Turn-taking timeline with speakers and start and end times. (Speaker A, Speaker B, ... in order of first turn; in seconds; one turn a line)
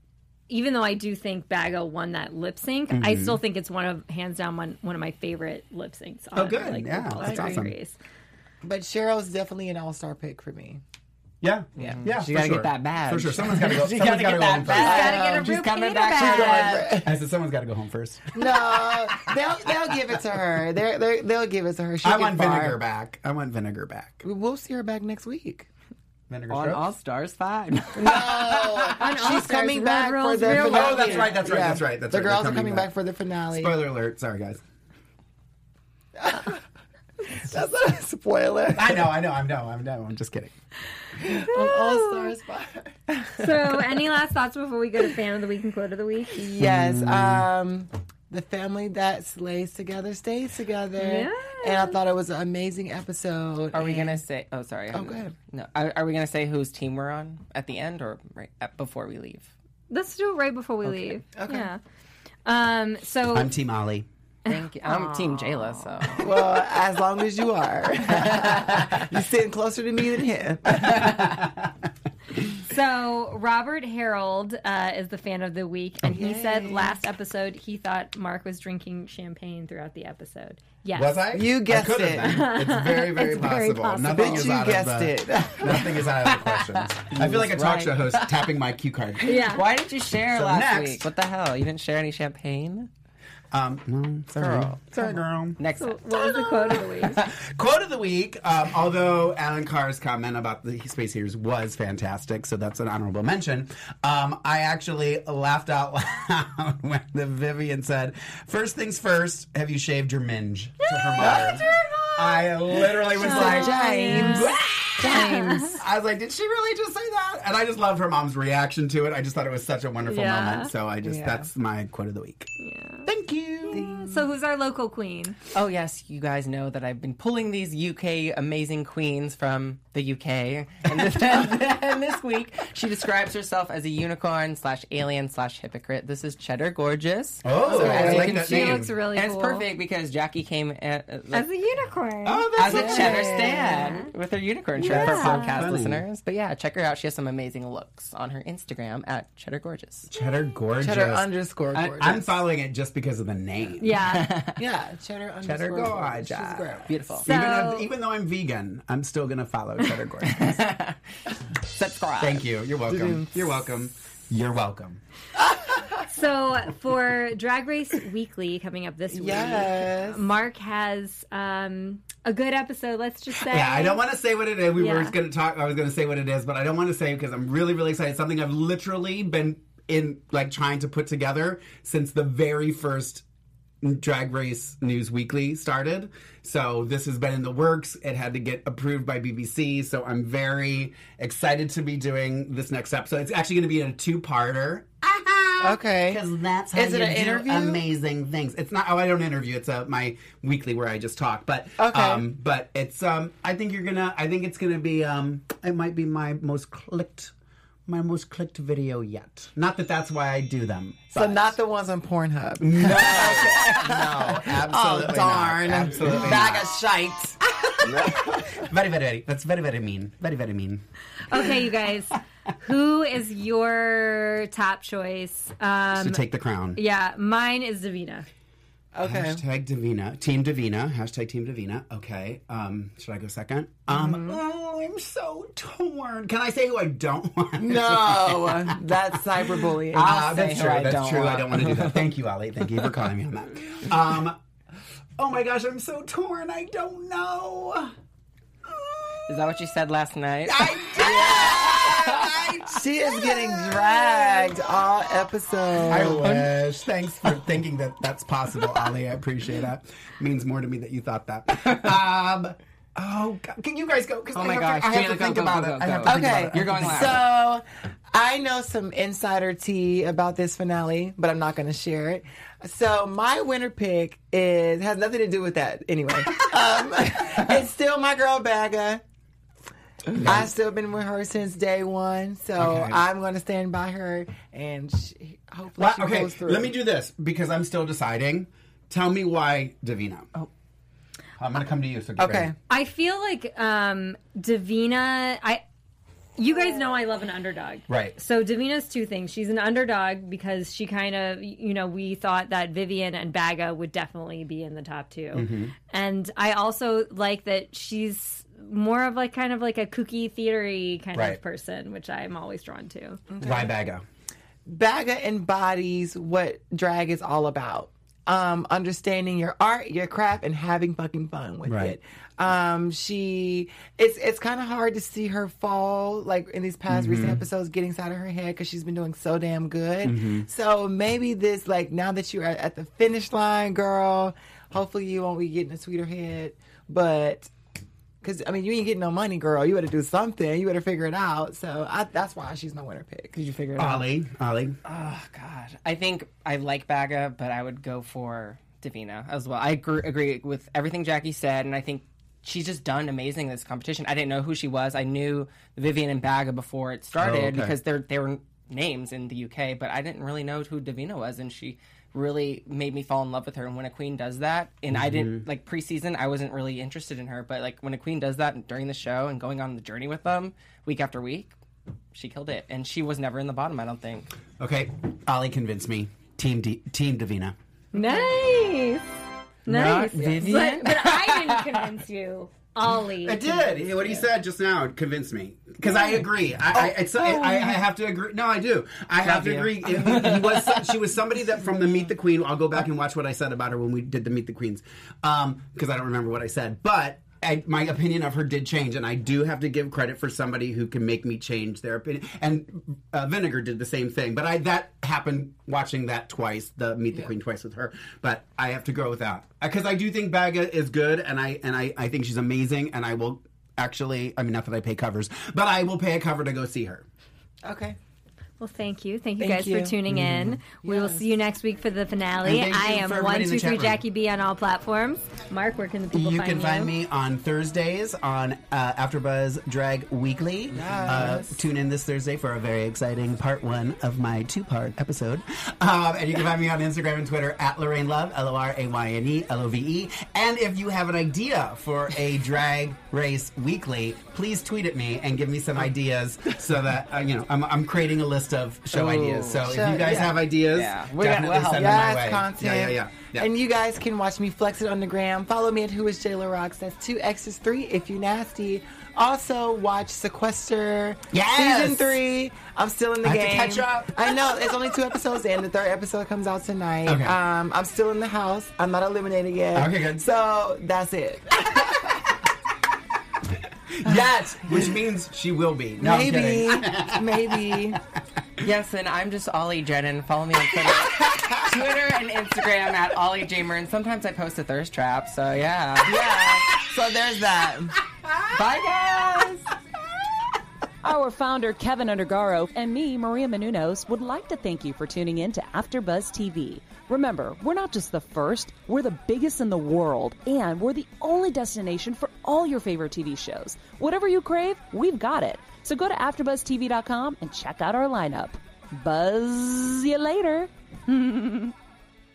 Speaker A: 0.5-8.0
Speaker B: 2.9-3.4
Speaker B: 6.3-7.7
Speaker C: 7.2-7.6
Speaker D: 8.6-10.8
Speaker B: 11.4-15.2
Speaker C: 11.8-16.9
Speaker A: 14.7-16.9
Speaker D: 14.8-15.5
Speaker D: 16.2-17.1
Speaker B: 16.9-19.4
Speaker D: 18.3-22.8
Speaker B: 22.0-24.2
Speaker D: 24.2-25.7
Speaker B: 26.3-26.9
Speaker C: 26.5-28.9
Speaker D: 27.9-33.7
Speaker A: 28.9-31.3
Speaker B: 30.4-32.9
Speaker B: 33.5-34.6
Speaker D: 36.2-36.6
Speaker D: 37.2-39.1
Speaker B: 38.7-40.5
Speaker D: 41.2-42.9
Speaker A: 41.5-42.3
Speaker A: 43.3-46.4
Speaker D: 46.3-54.2
Speaker B: 46.6-47.5
Speaker A: 51.0-52.0
Speaker C: 53.7-59.5
Speaker D: 54.9-55.3
Speaker A: 59.9-61.8
Speaker D: 61.3-61.7
Speaker A: 62.4-63.5
Speaker B: 63.3-64.1
Speaker A: 64.5-66.2
Speaker C: 64.5-66.3
Speaker D: 66.2-71.3
Speaker B: 70.8-71.7
Speaker A: 72.6-81.2
Speaker D: 76.1-77.0
Speaker B: 80.9-89.6
Speaker D: 81.3-82.5
Speaker A: 82.2-84.7
Speaker D: 84.1-86.0
Speaker C: 86.3-88.5
Speaker A: 89.2-89.6
Speaker C: 89.2-92.9
Speaker B: 90.3-91.1
Speaker B: 93.5-95.6
Speaker C: 94.3-94.9
Speaker C: 95.6-96.3
Speaker A: 95.8-97.2
Speaker B: 96.5-122.5
Speaker A: 110.8-115.8
Speaker D: 111.2-111.5
Speaker D: 113.1-115.8
Speaker A: 120.0-120.7
Speaker D: 121.0-121.5
Speaker A: 122.6-123.1
Speaker B: 123.0-123.9
Speaker A: 123.7-125.4
Speaker D: 123.7-124.2
Speaker C: 125.5-141.4
Speaker B: 137.4-138.9
Speaker D: 137.7-138.3
Speaker A: 137.7-139.7
Speaker A: 141.3-144.1
Speaker B: 142.2-143.6
Speaker C: 142.6-150.1
Speaker D: 142.6-143.8
Speaker B: 144.8-146.0
Speaker A: 144.8-145.6
Speaker B: 150.1-151.3
Speaker D: 150.8-152.4
Speaker B: 151.9-154.0
Speaker A: 153.8-154.3
Speaker C: 154.1-154.6
Speaker D: 154.6-157.2
Speaker B: 155.4-160.7
Speaker C: 156.9-157.2
Speaker A: 157.3-157.9
Speaker C: 160.2-161.0
Speaker C: 161.8-162.4
Speaker B: 162.2-165.0
Speaker D: 162.9-163.7
Speaker A: 166.1-174.0
Speaker D: 169.1-170.2
Speaker B: 173.4-183.2
Speaker A: 174.8-175.1
Speaker B: 183.8-207.3
Speaker D: 195.6-196.2
Speaker D: 196.7-197.8
Speaker D: 201.8-202.3
Speaker B: 207.9-211.6
Speaker D: 211.1-218.6
Speaker B: 212.6-216.7
Speaker B: 217.6-220.8
Speaker A: 221.3-226.2
Speaker B: 225.9-226.8
Speaker A: 226.7-228.2
Speaker D: 228.9-229.4
Speaker B: 229.0-244.4
Speaker D: 233.9-234.4
Speaker D: 237.6-240.3
Speaker C: 240.0-242.1
Speaker B: 245.2-247.9
Speaker B: 248.8-249.4
Speaker C: 249.3-250.9
Speaker B: 250.4-254.5
Speaker D: 251.0-251.9
Speaker D: 252.6-256.5
Speaker B: 255.9-267.2
Speaker C: 256.2-256.5
Speaker C: 264.3-267.2
Speaker D: 266.0-279.0
Speaker D: 280.1-286.8
Speaker B: 280.1-280.5
Speaker B: 282.6-283.1
Speaker B: 285.8-290.3
Speaker B: 291.4-292.5
Speaker D: 292.2-292.5
Speaker A: 292.7-295.6
Speaker A: 296.4-313.2
Speaker B: 297.9-298.1
Speaker B: 305.3-305.7
Speaker B: 311.1-311.4
Speaker D: 313.3-313.7
Speaker B: 313.4-314.0
Speaker D: 314.6-337.5
Speaker B: 321.6-322.0
Speaker B: 326.9-327.4
Speaker B: 330.0-330.5
Speaker D: 338.2-343.3
Speaker C: 343.3-344.1
Speaker B: 343.8-344.8
Speaker C: 344.8-371.5
Speaker B: 357.1-357.8
Speaker B: 364.9-365.4
Speaker C: 372.1-374.3
Speaker B: 374.6-377.5
Speaker A: 377.9-379.0
Speaker A: 379.6-384.2
Speaker C: 379.7-381.8
Speaker D: 380.1-380.6
Speaker B: 383.1-417.0
Speaker C: 389.2-390.8
Speaker D: 417.6-418.0
Speaker A: 418.6-426.9
Speaker D: 419.4-420.0
Speaker B: 420.1-420.6
Speaker D: 420.8-421.2
Speaker B: 422.4-424.0
Speaker B: 426.1-453.5
Speaker D: 430.7-431.6
Speaker C: 448.9-449.8
Speaker D: 449.6-450.4
Speaker C: 450.6-452.2
Speaker D: 451.7-471.9
Speaker B: 461.3-462.2
Speaker B: 463.2-464.9
Speaker B: 467.0-467.4
Speaker B: 469.7-470.2
Speaker B: 473.9-478.0
Speaker D: 476.0-478.0
Speaker C: 478.6-486.4
Speaker D: 486.0-488.0
Speaker C: 488.5-489.7
Speaker E: 491.0-511.7